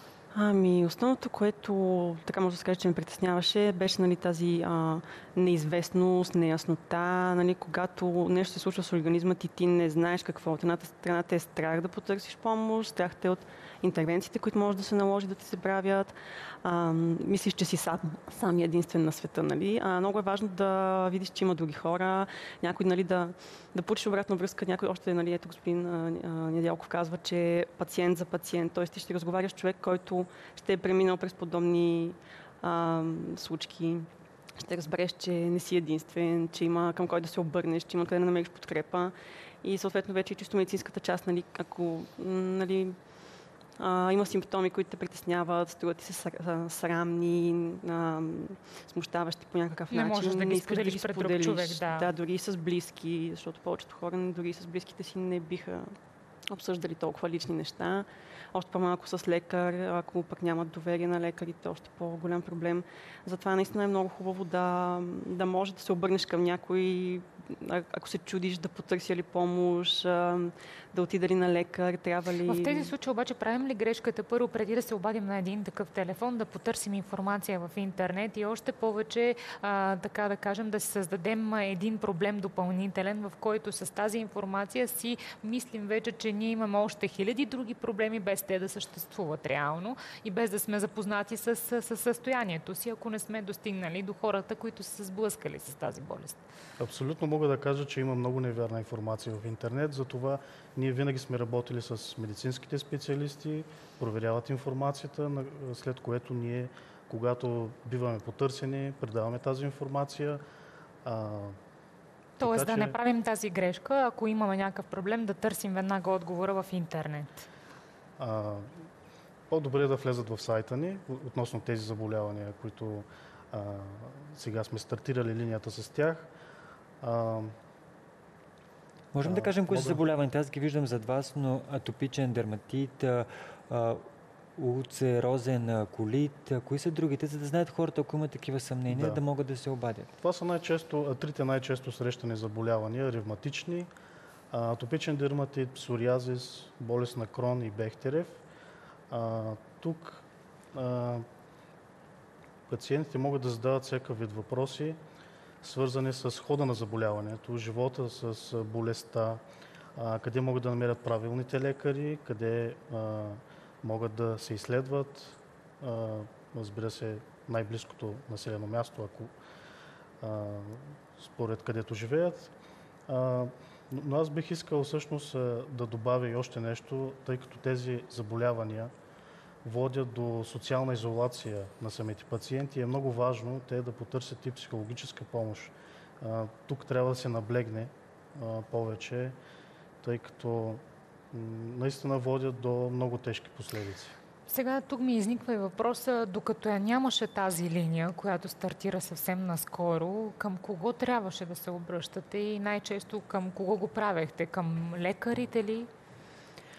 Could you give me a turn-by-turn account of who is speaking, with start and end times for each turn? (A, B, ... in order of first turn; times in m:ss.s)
0:00.3-0:34.1 A
0:34.6-0:43.0 A
0:43.8-0:55.9 A
0:49.9-0:52.1 B
0:56.5-1:12.9 A
1:12.4-1:36.4 B
1:36.8-1:50.4 C
1:51.0-1:51.5 C
1:52.4-1:57.4 B
1:52.4-1:52.9 C
1:58.2-1:58.7 C
1:59.5-2:06.3 C
2:07.0-2:07.5 C
2:09.1-2:14.0 D
2:09.2-2:10.0 C
2:14.6-2:20.1 D
2:18.9-2:19.2 C
2:20.2-2:23.9 C
2:24.5-2:28.4 C
2:29.1-2:31.2 C
2:32.7-2:35.0 C
2:35.6-2:39.4 C
2:40.0-2:49.3 C
2:50.2-2:52.5 C
2:53.1-2:58.9 C
2:59.6-3:09.3 C
3:10.0-3:14.1 C
3:14.5-3:25.9 B